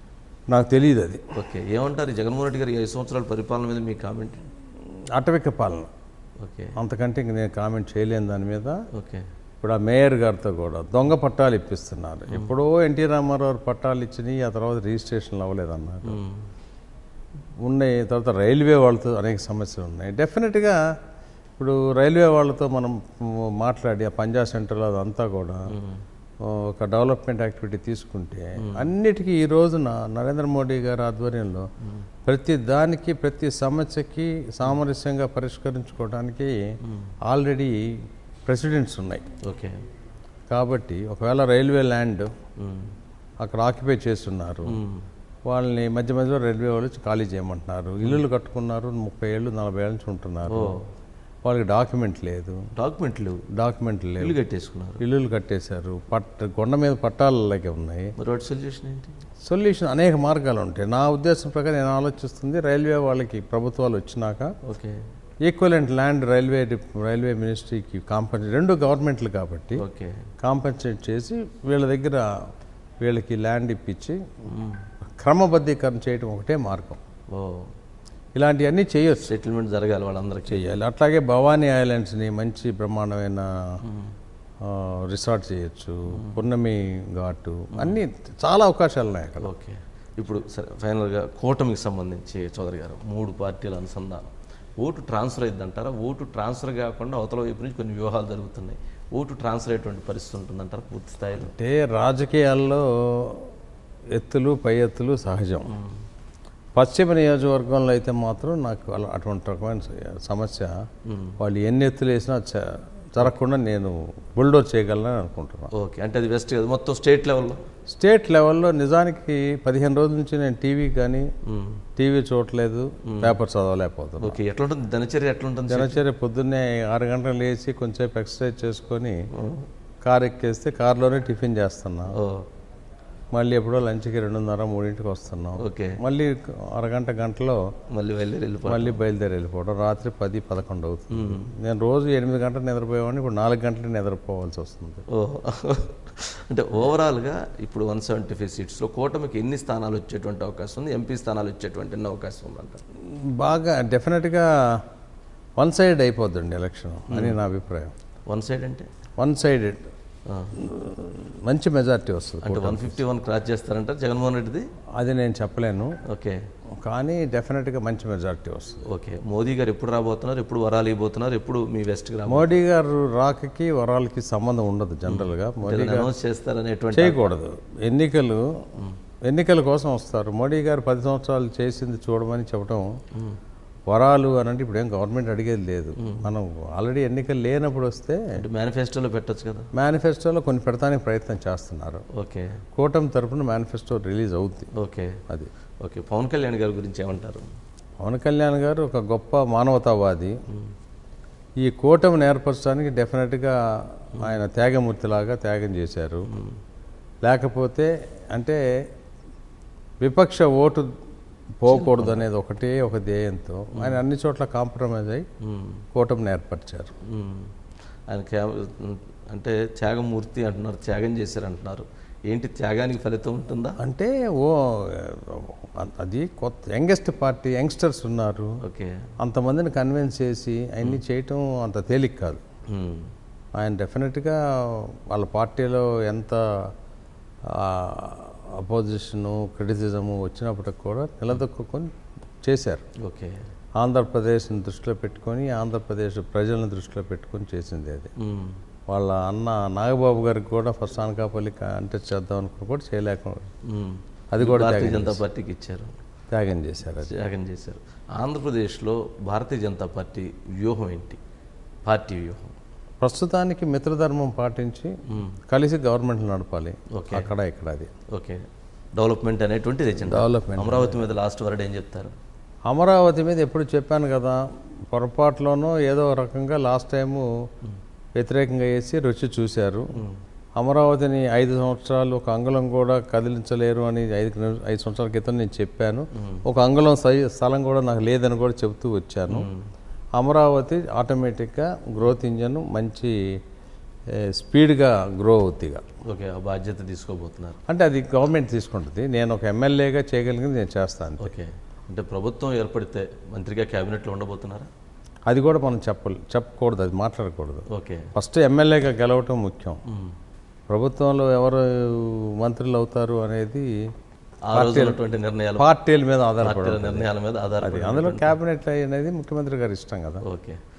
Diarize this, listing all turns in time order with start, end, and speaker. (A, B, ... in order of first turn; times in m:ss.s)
0:00.5-0:01.2 A
0:01.4-0:04.5 B
0:05.2-0:05.9 A
0:06.4-0:06.8 B
0:06.8-0:08.8 A
0:08.9-0:09.3 B
0:09.6-0:16.2 A
0:12.3-0:12.5 B
0:16.1-0:16.5 B
0:17.6-0:20.8 A
0:21.6-0:25.7 A
0:25.7-0:26.0 B
0:26.4-0:31.7 A
0:28.6-0:28.9 B
0:32.3-0:36.6 A
0:37.3-0:37.8 A
0:38.5-0:39.2 A
0:39.4-0:39.8 B
0:40.5-0:42.3 A
0:42.6-0:42.9 B
0:43.4-0:44.8 A
0:44.7-0:45.0 B
0:45.5-0:50.8 A
0:50.5-0:50.8 B
0:51.4-0:52.6 A
0:52.8-0:53.4 B
0:53.6-0:54.4 A
0:54.2-0:55.0 B
0:55.0-0:58.1 A
0:58.2-0:59.2 B
0:59.4-1:04.5 A
1:04.6-1:05.1 B
1:05.5-1:09.8 A
1:09.8-1:10.3 B
1:10.4-1:12.3 A
1:13.0-1:14.2 A
1:14.5-1:14.9 B
1:15.2-1:17.0 A
1:17.3-1:17.7 B
1:18.4-1:19.3 A
1:19.3-1:20.7 B
1:20.5-1:23.5 A
1:23.8-1:24.1 B
1:24.6-1:29.5 A
1:29.4-1:41.5 B
1:41.4-1:43.5 A
1:44.2-1:45.7 A
1:45.7-1:46.0 B
1:46.8-1:50.7 A
1:51.1-1:51.4 B
1:51.4-1:55.7 A
1:55.7-1:57.6 B
1:57.9-2:01.2 A
2:01.5-2:01.8 B
2:02.0-2:04.4 A
2:03.1-2:03.4 B
2:04.2-2:06.0 B
2:05.7-2:09.2 A
2:09.3-2:09.7 B
2:10.0-2:12.2 A
2:12.2-2:12.5 B
2:13.3-2:17.6 A
2:15.6-2:16.0 B
2:17.9-2:19.0 B
2:18.7-2:25.0 A
2:21.1-2:21.5 B
2:25.1-2:32.8 B
2:33.0-2:34.8 A
2:35.6-2:37.9 A
2:37.1-2:37.4 B
2:38.3-2:38.9 B
2:39.2-2:39.8 A
2:40.3-2:40.5 B
2:40.6-2:43.0 A
2:42.4-2:44.7 B
2:45.0-2:45.9 A
2:46.1-2:46.4 B
2:46.8-2:48.8 A
2:48.9-2:52.5 B
2:52.3-2:56.1 A
2:55.1-2:57.3 B
2:56.9-2:58.6 A
2:59.3-3:02.9 A
3:03.9-3:08.2 A
3:06.0-3:06.3 B
3:08.4-3:09.7 B
3:09.8-3:12.0 A
3:12.1-3:12.6 B
3:12.8-3:14.7 A
3:14.8-3:15.2 B
3:15.8-3:17.5 B
3:18.0-3:20.4 A
3:21.6-3:26.3 A
3:26.3-3:26.6 B
3:27.2-3:28.6 A
3:30.0-3:30.9 A
3:31.6-3:35.3 A
3:31.7-3:32.2 B
3:35.4-3:35.8 B
3:35.9-3:36.9 A
3:37.1-3:37.5 B
3:38.1-3:43.8 B
3:43.8-3:48.6 A
3:48.6-3:49.0 B
3:49.2-3:52.4 A
3:52.7-3:53.1 B
3:53.6-3:56.7 A
3:57.5-4:01.9 A
4:02.4-4:02.8 A
4:03.0-4:03.4 B
4:03.8-4:08.1 A
4:08.2-4:08.6 B
4:08.9-4:13.5 A
4:13.7-4:15.9 B
4:14.3-4:15.2 A
4:16.3-4:17.1 A
4:17.0-4:21.2 B
4:21.8-4:22.6 B
4:23.0-4:27.9 A
4:25.1-4:25.4 B
4:26.9-4:27.3 B
4:28.1-4:28.4 B
4:29.0-4:32.1 B
4:30.0-4:31.0 A
4:32.7-4:34.4 A
4:34.9-4:37.3 A
4:38.2-4:39.9 A
4:40.6-4:49.5 A
4:49.3-4:49.6 B
4:50.2-4:53.1 A
4:54.2-4:55.8 A
4:56.0-4:57.6 B
4:57.7-5:01.4 A
5:01.2-5:04.7 B
5:05.3-5:09.8 A
5:07.7-5:08.1 B
5:09.9-5:10.2 B
5:10.7-5:13.7 A
5:14.5-5:15.7 B
5:14.5-5:15.0 A
5:15.6-5:17.1 A
5:16.4-5:18.4 B
5:17.6-5:20.2 A
5:20.2-5:20.6 B